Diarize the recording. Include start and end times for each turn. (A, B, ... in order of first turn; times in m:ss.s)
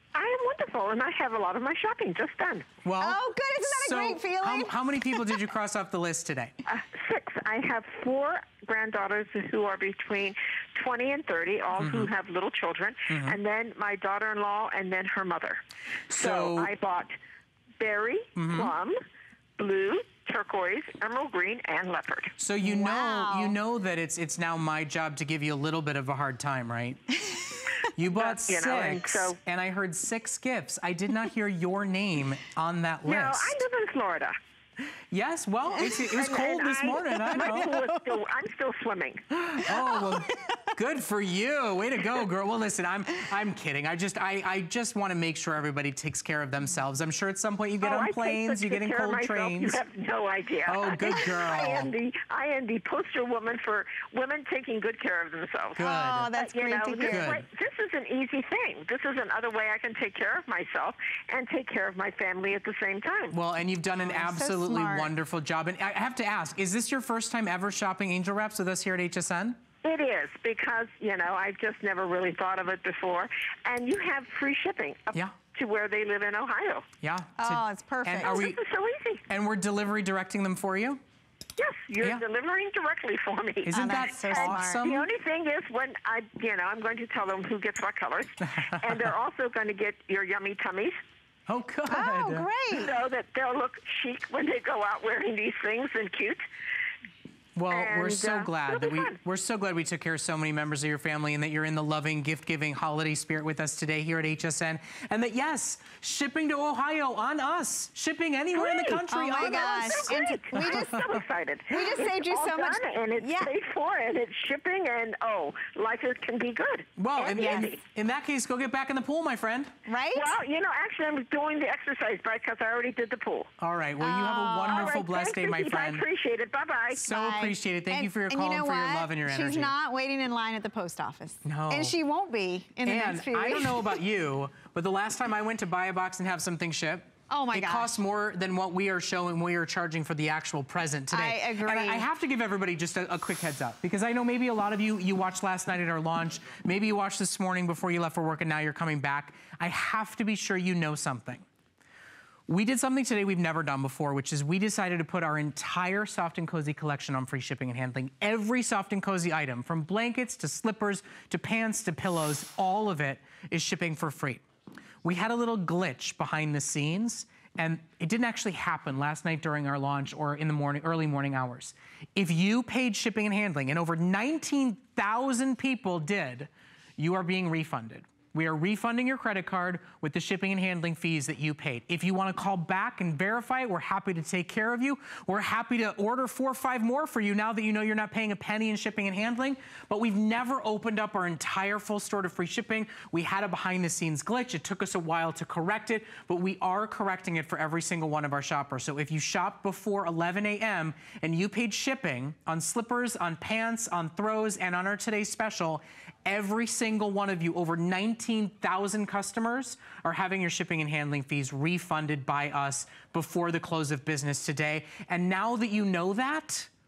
0:00.2-0:02.7 A
0:02.8-0:06.5 B
0:03.0-0:05.4 C
0:06.7-0:15.6 A
0:11.8-0:12.1 B
0:13.1-0:13.4 B
0:16.1-0:16.7 B
0:16.1-0:17.1 A
0:17.8-0:19.0 A
0:18.4-0:18.7 B
0:19.6-0:22.3 A
0:22.4-0:27.1 B
0:22.6-0:23.6 C
0:28.0-0:33.6 B
0:28.1-0:29.4 A
0:33.1-0:34.4 A
0:35.1-0:37.9 B
0:35.9-0:39.2 A
0:39.3-0:49.8 B
0:47.8-0:55.8 A
0:50.7-0:51.9 B
0:55.8-0:56.3 B
0:55.8-0:57.3 C
0:56.4-1:03.4 A
0:57.1-0:57.4 B
1:03.3-1:09.6 B
1:03.9-1:05.1 C
1:09.8-1:16.8 A
1:17.0-1:18.6 B
1:17.4-1:18.5 C
1:18.2-1:19.2 A
1:19.3-1:21.0 B
1:21.6-1:31.0 A
1:23.7-1:25.1 B
1:23.7-1:24.9 C
1:28.5-1:29.1 B
1:31.5-1:32.5 B
1:31.9-1:33.0 C
1:32.7-1:36.4 A
1:37.6-1:51.2 B
1:37.7-1:39.2 A
1:48.6-1:57.8 A
1:49.1-1:51.1 C
1:51.7-1:53.5 C
1:57.0-1:59.7 B
1:57.4-1:57.7 C
1:59.9-2:00.4 C
2:00.1-2:03.5 A
2:03.6-2:06.0 B
2:04.0-2:04.9 C
2:04.6-2:07.0 A
2:06.9-2:09.7 B
2:06.9-2:14.0 C
2:11.4-2:12.0 B
2:12.8-2:31.4 B
2:17.3-2:17.9 C
2:21.1-2:22.1 C
2:32.5-2:44.4 B
2:45.0-3:36.7 B